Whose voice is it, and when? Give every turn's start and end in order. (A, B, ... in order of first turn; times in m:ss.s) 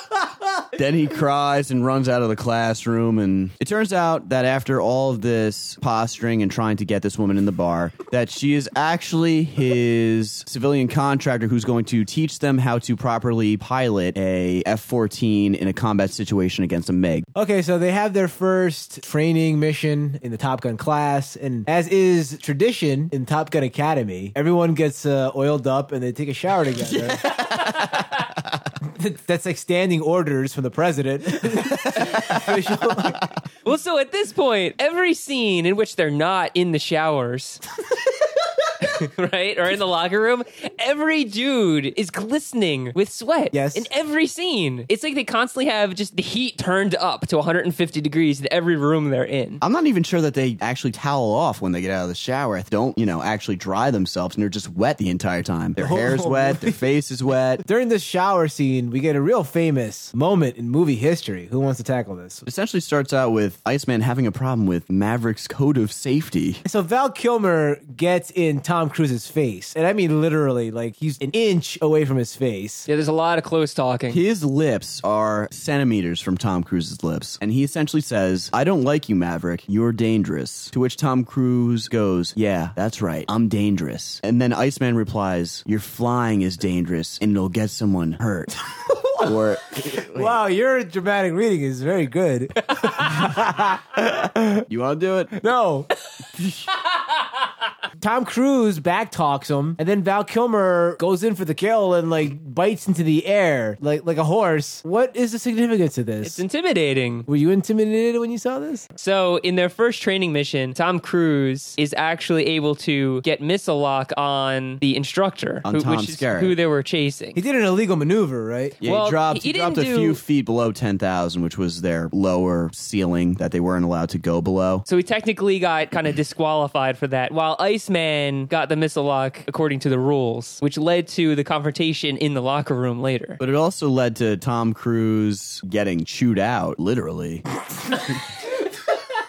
0:00.8-0:17.3 A
0:17.3-0:27.3 B
0:27.4-0:28.0 C
0:28.8-0:33.2 B
0:33.6-0:37.6 C
0:38.8-0:49.6 C
0:43.5-0:43.9 B
0:49.6-0:57.6 A
0:55.8-0:56.8 B
0:57.6-1:02.4 B
1:02.4-1:06.6 A
1:06.6-1:12.9 B
1:12.9-1:14.2 C
1:14.1-1:28.5 A
1:29.2-1:30.4 A
1:30.1-1:33.8 B
1:33.3-1:35.4 A
1:35.4-1:35.9 B
1:38.0-1:46.4 B
1:46.2-1:47.3 C
1:47.3-1:48.9 B
1:49.0-1:57.4 C
1:55.6-1:56.5 A
1:57.3-1:58.8 B
1:58.8-2:04.8 A
1:58.8-2:00.2 C
2:04.9-2:13.4 C
2:13.4-2:17.4 A